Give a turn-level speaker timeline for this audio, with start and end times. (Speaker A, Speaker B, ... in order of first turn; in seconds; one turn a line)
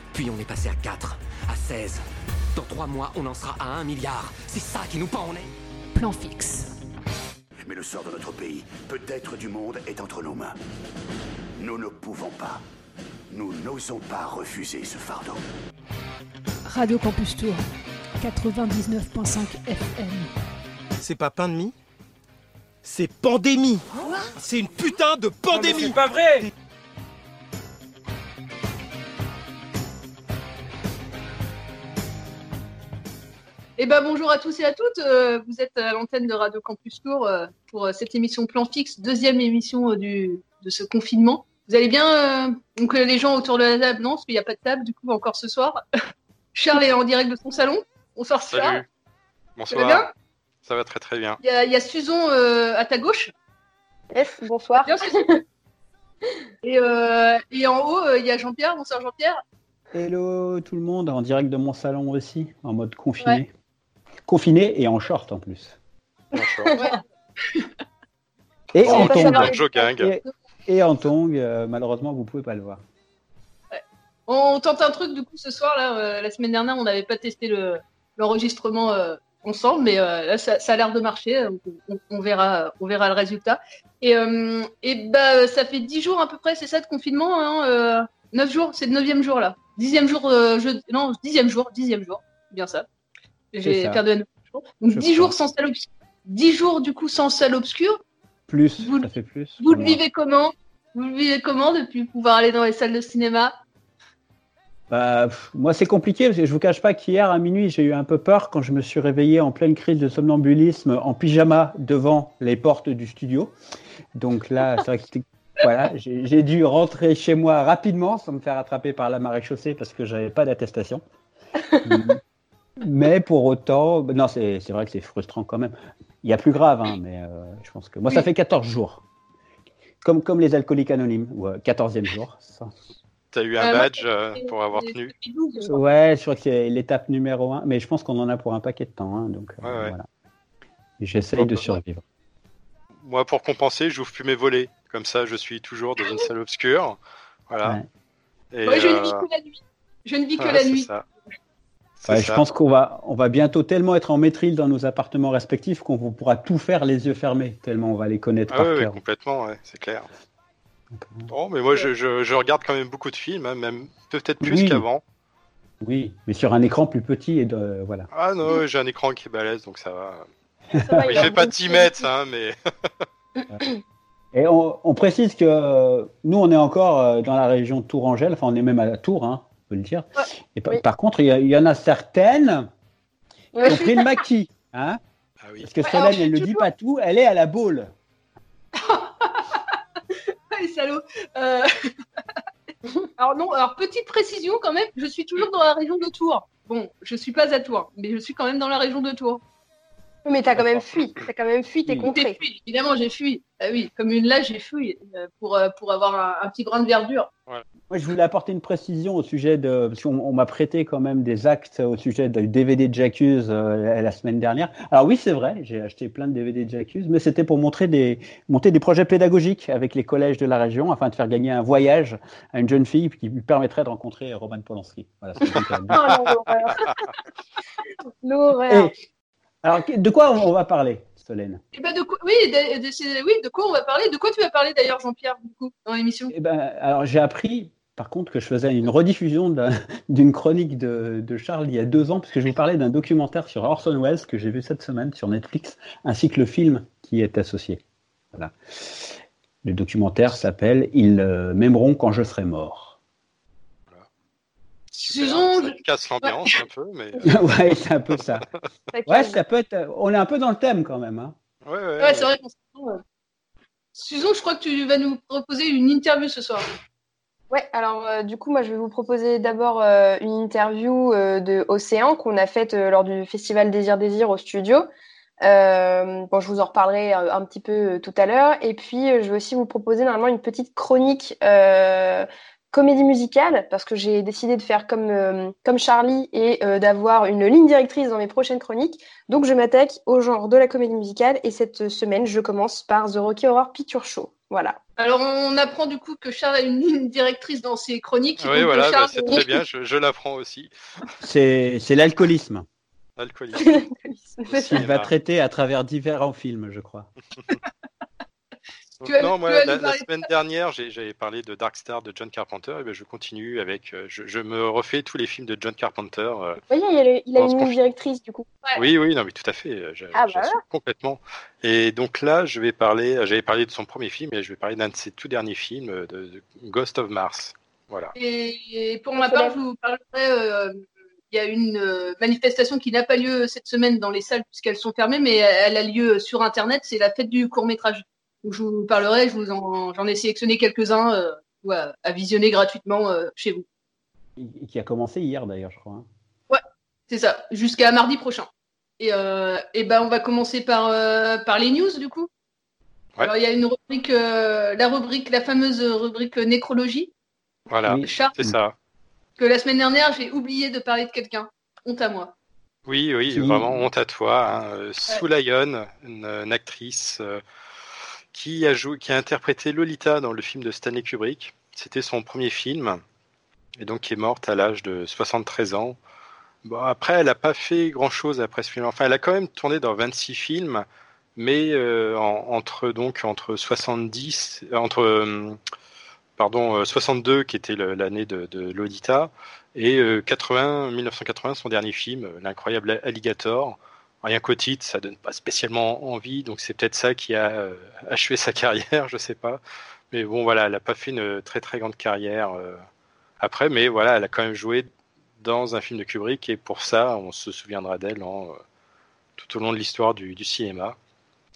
Speaker A: 0.1-2.0
Speaker A: 2.5-5.5
Speaker B: 5.9-6.7
Speaker C: 7.7-10.5
Speaker C: 11.6-12.6
Speaker C: 13.3-15.4
Speaker B: 16.6-17.6
Speaker B: 18.2-20.3
Speaker D: 21.0-21.7
Speaker D: 22.8-23.8
Speaker D: 24.4-26.4
Speaker E: 33.8-45.8
Speaker E: 46.5-48.8
Speaker F: 48.5-48.9
Speaker F: 49.6-50.1
Speaker E: 49.7-50.1
Speaker F: 50.6-51.4
Speaker E: 51.4-53.3
Speaker G: 54.1-55.4
Speaker E: 56.6-59.4
Speaker H: 59.9-63.5
Speaker H: 64.3-65.8
Speaker F: 66.3-66.7
Speaker H: 68.7-72.8
Speaker F: 68.8-70.1
Speaker G: 68.9-69.5
Speaker E: 69.0-69.4
Speaker E: 73.7-92.8
Speaker E: 93.5-98.0
Speaker H: 93.6-94.0
Speaker H: 94.9-95.3
Speaker H: 98.5-100.0
Speaker E: 98.8-99.1
Speaker E: 99.6-103.5
Speaker H: 104.9-113.5
Speaker H: 114.2-121.0
Speaker H: 121.8-122.2
Speaker H: 122.8-129.0
Speaker H: 130.0-132.7
Speaker F: 133.3-135.1
Speaker E: 133.6-135.8
Speaker H: 135.7-140.1
Speaker F: 139.6-139.9
Speaker H: 141.0-142.0
Speaker F: 141.4-141.7
Speaker F: 143.0-147.0
Speaker F: 147.5-147.8
Speaker F: 148.5-149.2
Speaker E: 148.6-150.9
Speaker F: 150.4-151.0
Speaker F: 152.0-152.4
Speaker H: 152.1-158.9
Speaker F: 158.5-160.1
Speaker H: 160.9-161.3
Speaker F: 161.3-165.0
Speaker H: 164.4-164.8
Speaker H: 165.8-168.1
Speaker F: 168.1-170.3
Speaker H: 170.8-171.2
Speaker G: 170.8-172.0
Speaker F: 171.1-172.6
Speaker H: 174.3-182.7
Speaker G: 183.5-183.8
Speaker H: 183.6-185.0
Speaker E: 183.7-184.0
Speaker F: 185.4-185.7
Speaker H: 185.6-187.9
Speaker E: 185.8-186.7
Speaker E: 188.8-189.7
Speaker E: 190.5-191.9
Speaker E: 193.2-199.4
Speaker G: 200.2-202.4
Speaker E: 202.0-207.3
Speaker H: 207.9-226.0
Speaker G: 225.9-226.9
Speaker G: 228.2-228.9
Speaker H: 229.6-231.6
Speaker E: 231.7-236.3
Speaker H: 236.3-247.8
Speaker H: 248.3-249.0
Speaker H: 249.6-252.9
Speaker E: 254.9-256.5
Speaker F: 255.1-257.2
Speaker H: 257.2-258.4
Speaker G: 258.9-259.4
Speaker H: 259.1-261.3
Speaker F: 261.6-262.3
Speaker E: 262.0-263.0
Speaker E: 263.9-266.7
Speaker G: 267.5-274.9
Speaker G: 275.4-294.8
Speaker E: 295.0-299.4
Speaker F: 298.4-300.7
Speaker H: 301.2-302.6
Speaker F: 303.2-303.8
Speaker G: 303.6-304.8
Speaker F: 304.5-305.1
Speaker H: 304.5-307.1
Speaker F: 309.0-316.6
Speaker E: 309.0-310.1
Speaker G: 316.7-318.5
Speaker F: 317.4-317.8
Speaker F: 318.8-328.1
Speaker G: 320.1-320.6
Speaker E: 328.1-343.6
Speaker G: 329.2-329.6
Speaker H: 344.4-346.1
Speaker E: 346.5-348.5
Speaker E: 349.0-352.3
Speaker E: 353.2-357.1
Speaker F: 357.7-358.7
Speaker E: 358.0-358.4
Speaker E: 359.4-362.3
Speaker F: 362.9-367.4
Speaker H: 363.3-363.8
Speaker F: 368.3-373.0
Speaker F: 373.8-376.0
Speaker F: 376.6-380.8
Speaker F: 381.4-385.6
Speaker F: 386.4-402.8
Speaker F: 403.4-404.9
Speaker F: 405.4-408.6
Speaker F: 409.4-410.9